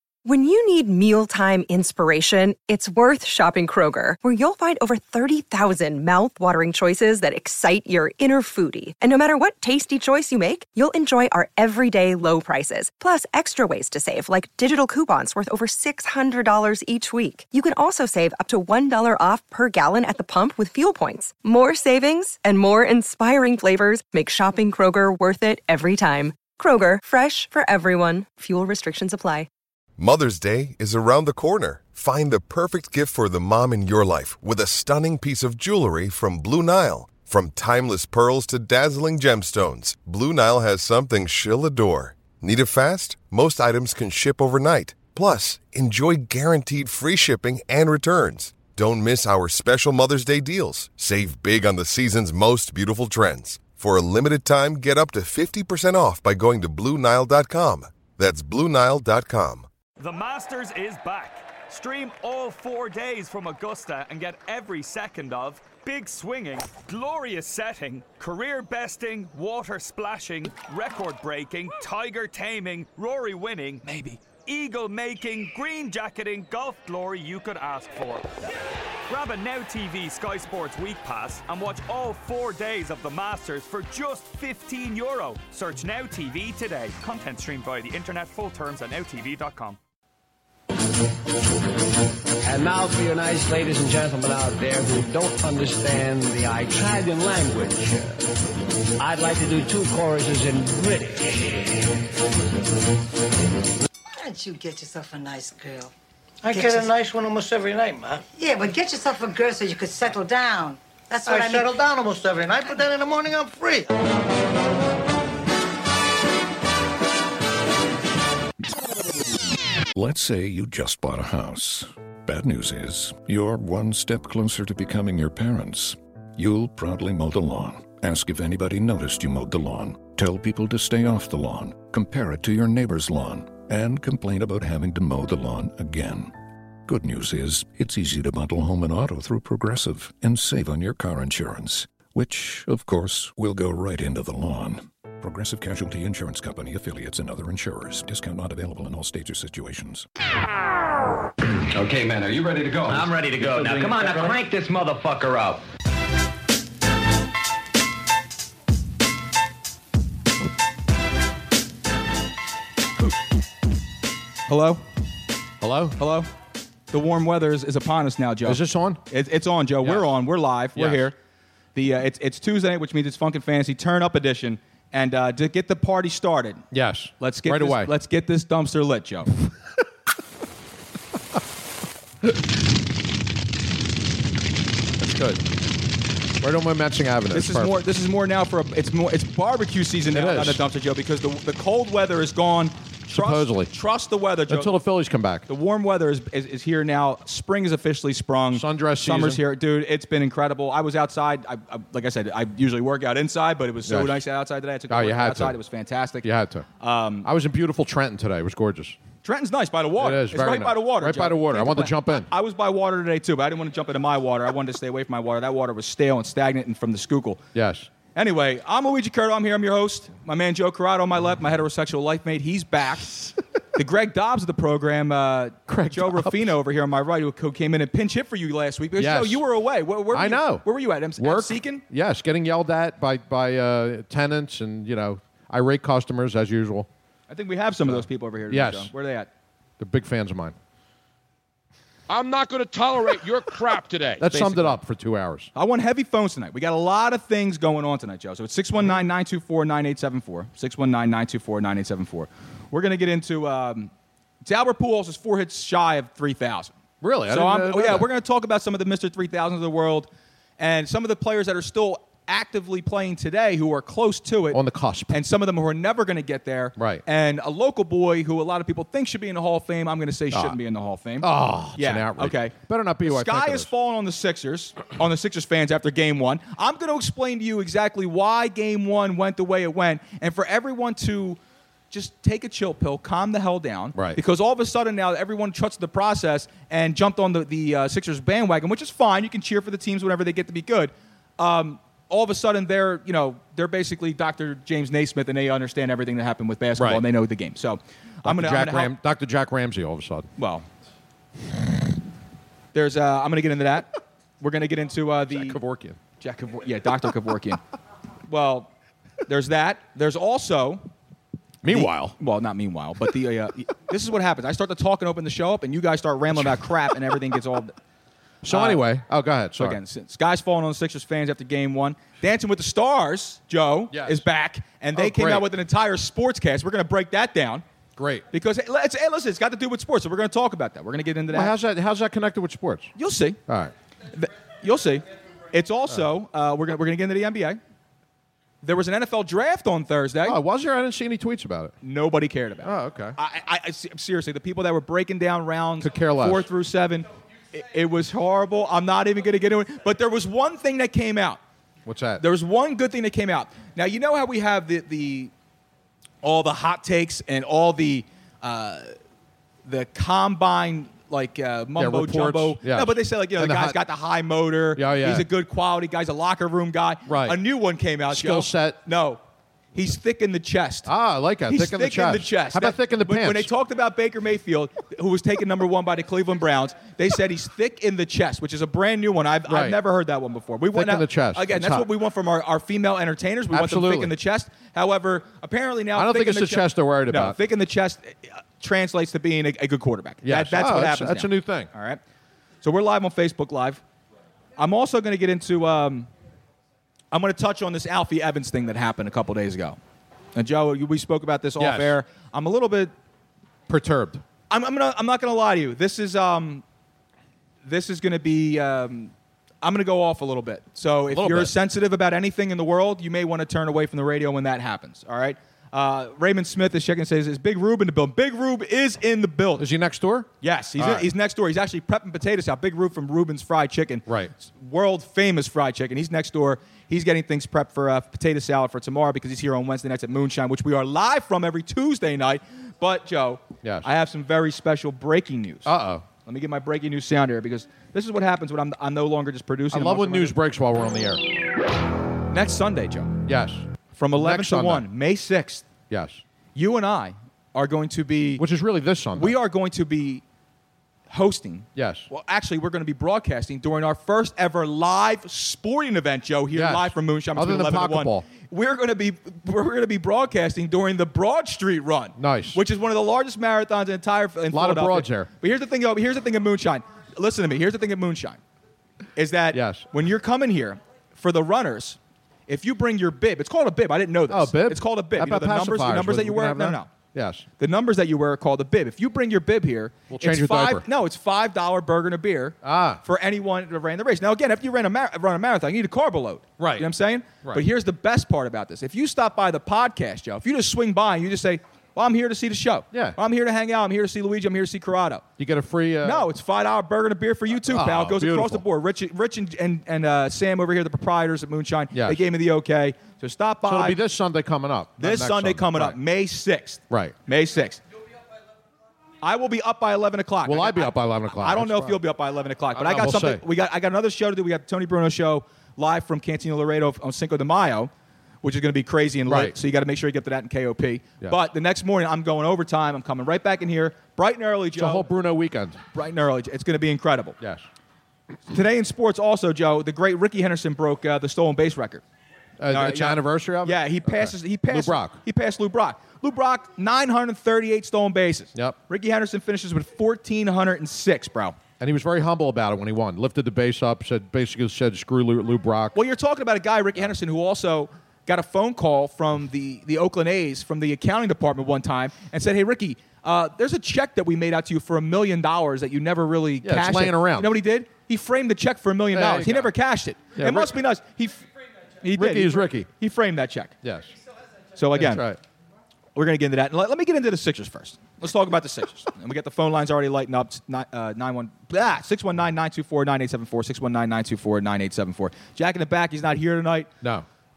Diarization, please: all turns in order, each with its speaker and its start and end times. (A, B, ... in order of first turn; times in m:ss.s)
0:00.2-0:29.5 A
0:30.0-0:59.7 B
1:00.0-1:18.3 C
1:13.8-1:14.1 D
1:19.1-1:29.8 C
1:32.4-1:38.2 E
1:39.0-1:41.6 E
1:44.1-1:45.9 F
1:46.4-1:48.2 G
1:46.5-1:46.9 F
1:48.3-1:51.7 F
1:51.2-1:53.9 G
1:59.9-2:16.3 H
2:16.8-2:30.1 H
2:31.6-2:35.6 I
2:44.5-2:44.8 D
2:45.6-2:46.0 J
2:46.0-2:46.3 D
2:46.9-2:51.1 D
2:48.4-2:49.0 J
2:49.8-2:50.2 J
2:50.7-2:51.1 J
2:51.7-2:56.6 D
2:56.7-2:57.9 J
2:57.2-2:59.3 D
3:05.0-3:05.4 J
3:06.4-3:07.8 J
3:07.3-3:14.7 D
3:10.1-3:10.6 J
3:13.1-3:13.7 J
3:14.5-3:15.5 J
3:15.5-3:26.3 D
3:18.5-3:19.4 J
3:23.8-3:24.2 J
3:24.9-3:25.6 J
3:26.2-3:26.7 J
3:26.8-3:27.3 D
3:27.2-3:29.0 J
3:29.2-3:37.4 D
3:30.0-3:32.3 J
3:37.5-3:37.9 J
3:38.1-3:43.1 D
3:43.7-3:51.8 D
3:45.7-3:46.5 J
3:49.0-3:49.4 J
3:50.1-3:50.6 J
3:51.2-3:56.9 J
3:57.3-3:59.3 D
3:57.8-3:58.9 J
3:59.8-4:00.6 J
4:02.1-4:04.3 K
4:04.2-4:05.5 J
4:04.2-4:04.8 D
4:05.5-4:13.9 D
4:14.4-4:16.7 D
4:17.0-4:18.1 J
4:17.3-4:32.5 D
4:24.5-4:25.2 J
4:26.8-4:27.0 J
4:30.3-4:30.6 J
4:31.2-4:33.7 J
4:33.0-4:41.4 D
4:41.9-4:58.9 D
4:43.9-4:44.2 J
4:56.8-4:57.0 J
4:58.2-5:00.3 J
5:00.4-5:00.6 D
5:02.7-5:05.6 D
5:05.3-5:06.0 J
5:06.2-5:07.6 D
5:08.3-5:08.7 D
5:09.2-5:10.9 D
5:11.6-5:12.2 J
5:11.6-5:17.8 D
5:16.3-5:16.6 J
5:18.4-5:19.8 J
5:18.5-5:18.8 D
5:19.5-5:27.6 D
5:23.9-5:24.2 J
5:24.9-5:25.5 J
5:28.0-5:28.2 J
5:28.3-5:31.5 D
5:31.3-5:32.9 J
5:33.0-5:33.4 D
5:33.5-5:33.7 J
5:34.1-5:37.6 D
5:38.6-5:40.4 D
5:40.2-5:41.7 J
5:41.8-5:51.4 D
5:42.6-5:43.2 J
5:45.8-5:46.5 J
5:51.8-5:52.2 J
5:52.2-5:55.3 D
5:56.2-5:58.9 D
5:59.6-6:09.2 D
6:01.8-6:03.8 J
6:04.7-6:05.3 J
6:07.0-6:07.4 J
6:08.1-6:08.8 J
6:09.7-6:10.9 D
6:10.8-6:13.5 J
6:11.5-6:32.0 D
6:19.5-6:19.8 J
6:20.7-6:21.9 J
6:23.5-6:24.1 J
6:25.9-6:27.4 J
6:30.2-6:31.7 J
6:32.6-6:33.8 D
6:34.6-6:36.1 D
6:37.1-6:39.8 D
6:40.3-6:42.9 D
6:41.6-6:42.0 J
6:43.7-6:44.2 J
6:44.5-6:46.6 D
6:47.6-6:59.7 D
6:51.1-6:51.5 J
6:59.6-7:01.1 J
7:00.4-7:15.7 D
7:04.0-7:04.3 J
7:13.6-7:13.9 J
7:15.6-7:16.0 J
7:16.2-7:20.4 D
7:19.7-7:21.4 J
7:22.3-7:23.1 D
7:23.2-7:24.8 J
7:23.9-7:25.7 D
7:25.9-7:26.2 J
7:26.5-7:28.4 D
7:28.4-7:29.4 J
7:29.1-7:30.2 D
7:31.1-7:48.4 D
7:31.7-7:32.1 J
7:36.5-7:38.2 J
7:42.2-7:42.6 J
7:44.5-7:45.3 J
7:49.2-7:56.9 D
7:49.5-7:49.9 J
7:54.3-7:57.5 J
7:57.6-8:15.2 D
8:00.1-8:00.8 J
8:02.6-8:03.0 J
8:06.6-8:06.9 J
8:12.9-8:13.2 J
8:15.4-8:16.3 J
8:16.0-8:24.0 D
8:17.6-8:18.6 J
8:21.9-8:22.2 J
8:23.6-8:26.0 J
8:25.0-8:27.8 D
8:26.9-8:27.2 J
8:29.2-8:37.9 D
8:30.4-8:32.0 J
8:32.7-8:33.4 J
8:38.4-8:45.0 D
8:39.2-8:39.6 J
8:44.7-8:45.8 J
8:45.9-8:47.4 D
8:47.4-8:47.6 J
8:48.5-8:52.0 D
8:52.6-8:55.2 J
8:52.7-9:01.6 D
9:01.8-9:06.0 J
9:05.9-9:21.5 D
9:16.6-9:17.6 J
9:19.1-9:19.7 J
9:20.4-9:20.8 J
9:22.0-9:23.8 D
9:22.1-9:22.9 J
9:23.8-9:24.1 J
9:24.8-9:25.2 D
9:24.9-9:25.4 J
9:26.1-9:36.9 D